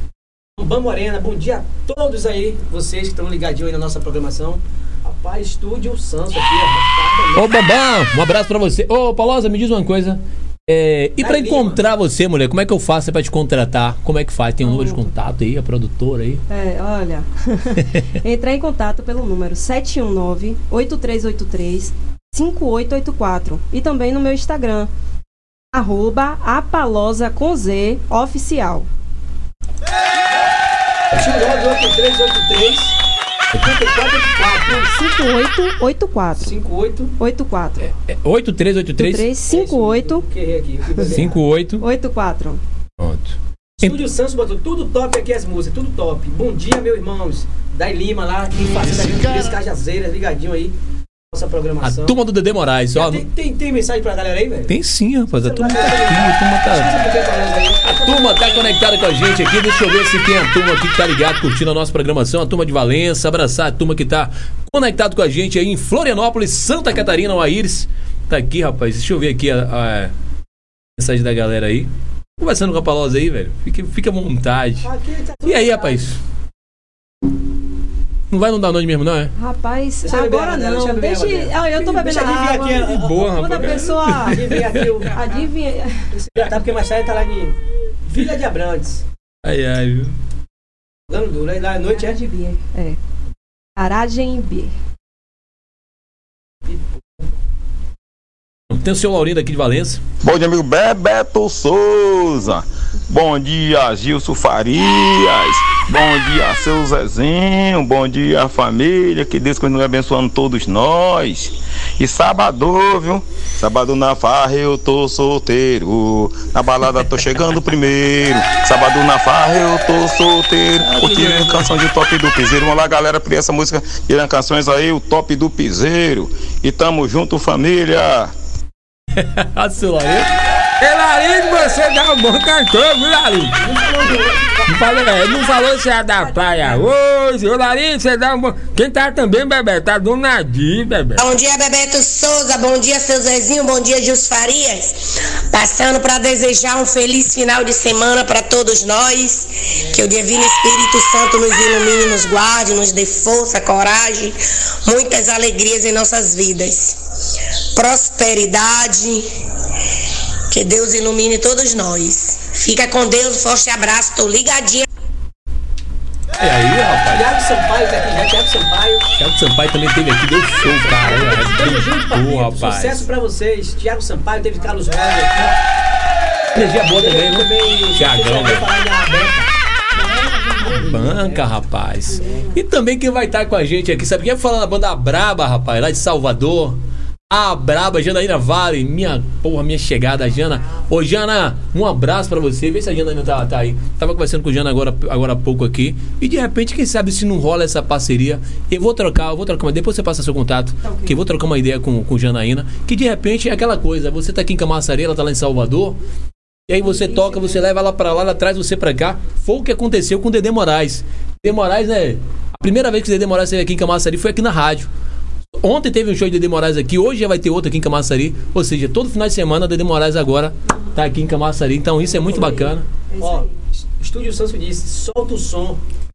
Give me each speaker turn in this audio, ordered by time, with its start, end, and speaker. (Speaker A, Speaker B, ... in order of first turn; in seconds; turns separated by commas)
Speaker A: 0.6-7.6, Speaker B: 7.3-16.4, Speaker A: 11.2-11.8, Speaker C: 14.6-15.1, Speaker C: 16.5-24.9, Speaker B: 17.8-18.0, Speaker C: 25.7-28.9, Speaker A: 31.1-33.0, Speaker A: 33.5-34.9, Speaker C: 34.7-36.6, Speaker A: 36.4-37.1, Speaker C: 37.2-37.8, Speaker B: 37.8-39.3, Speaker C: 39.0-40.2, Speaker A: 39.5-41.4, Speaker B: 41.0-41.9, Speaker C: 41.8-42.6, Speaker B: 43.0-44.0, Speaker A: 43.8-50.7, Speaker B: 49.0-49.4, Speaker A: 51.3-52.2, Speaker B: 51.8-53.2, Speaker A: 52.9-54.7, Speaker B: 54.7-57.0, Speaker A: 55.3-58.8, Speaker B: 57.8-70.1, Speaker B: 71.0-74.9, Speaker A: 74.8-76.0, Speaker B: 75.5-76.2, Speaker B: 78.3-79.3, Speaker C: 79.4-84.6, Speaker A: 80.0-85.2, Speaker B: 82.7-85.0, Speaker C: 85.1-86.1, Speaker A: 86.1-89.0, Speaker B: 89.4-90.1, Speaker A: 91.1-92.2, Speaker C: 91.9-93.0, Speaker C: 93.8-94.7, Speaker A: 96.7-97.2, Speaker B: 98.7-100.0, Speaker D: 100.2-128.3, Speaker B: 120.8-121.8, Speaker B: 129.2-130.3, Speaker E: 130.8-133.6, Speaker A: 133.6-134.7, Speaker E: 134.7-141.2, Speaker F: 141.2-157.0, Speaker F: 157.7-159.3, Speaker F: 160.5-164.8, Speaker B: 166.4-167.4, Speaker A: 167.1-169.1, Speaker B: 169.2-173.1, Speaker A: 170.6-175.6, Speaker B: 176.5-178.7, Speaker A: 176.6-179.5, Speaker C: 179.9-180.8, Speaker A: 180.6-181.5, Speaker B: 180.7-186.8, Speaker C: 182.1-182.5, Speaker B: 187.3-206.0, Speaker C: 200.8-201.2, Speaker B: 206.7-214.9, Speaker C: 206.8-207.6, Speaker B: 215.6-222.8, Speaker C: 220.7-220.9, Speaker C: 222.3-223.6, Speaker A: 222.3-225.8